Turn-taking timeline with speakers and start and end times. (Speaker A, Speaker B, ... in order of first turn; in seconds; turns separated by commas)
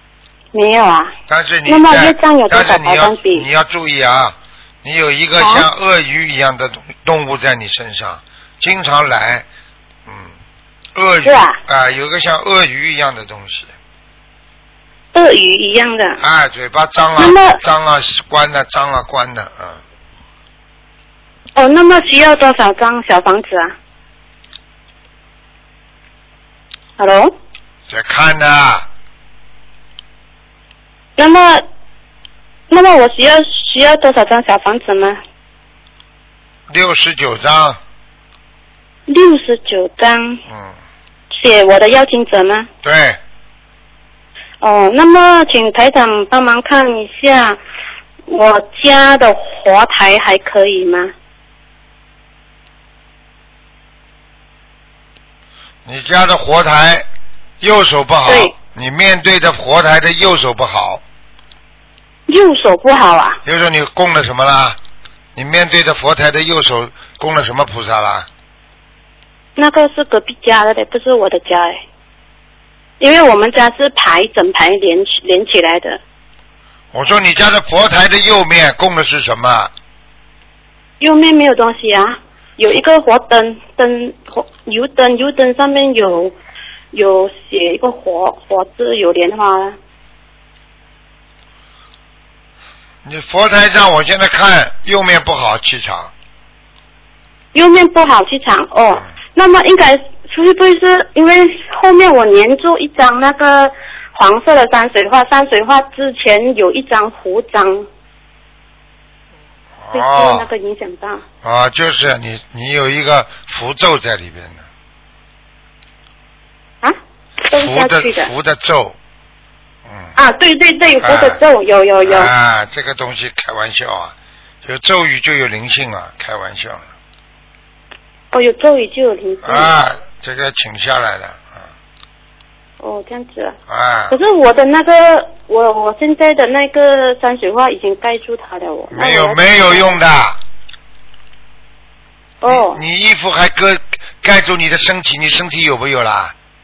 Speaker A: 0.5-1.1, Speaker B: 1.3-9.5, Speaker A: 1.7-3.5, Speaker A: 5.4-5.7, Speaker B: 10.1-10.3, Speaker B: 10.9-13.7, Speaker A: 11.2-11.6, Speaker A: 15.1-16.2, Speaker B: 16.2-19.8, Speaker A: 17.2-17.6, Speaker A: 21.6-23.8, Speaker A: 27.0-27.3, Speaker B: 27.9-28.9, Speaker A: 31.2-31.7, Speaker A: 32.7-35.2, Speaker B: 36.7-37.8, Speaker A: 39.1-40.4, Speaker B: 40.5-40.8, Speaker A: 41.3-42.7, Speaker B: 42.8-43.2, Speaker A: 44.6-47.6, Speaker A: 48.3-51.1, Speaker B: 55.9-57.1, Speaker B: 57.6-61.0, Speaker A: 58.3-58.5, Speaker A: 62.3-63.4, Speaker B: 63.5-64.8, Speaker B: 65.4-68.3, Speaker A: 69.6-71.8, Speaker A: 73.0-76.0, Speaker B: 76.9-79.7, Speaker A: 81.0-86.4, Speaker A: 86.9-89.8, Speaker B: 93.0-96.1, Speaker A: 97.5-107.9, Speaker B: 109.8-110.5, Speaker A: 109.9-111.2, Speaker B: 111.4-114.6, Speaker A: 116.8-118.3, Speaker B: 117.5-119.0, Speaker B: 119.9-120.1, Speaker A: 120.2-122.3, Speaker B: 121.0-121.4, Speaker B: 122.0-126.9, Speaker A: 128.3-129.7, Speaker B: 129.4-131.7, Speaker A: 132.8-133.6, Speaker B: 133.7-134.2, Speaker A: 134.1-140.0, Speaker B: 138.9-140.4, Speaker A: 142.4-142.8, Speaker B: 142.5-146.3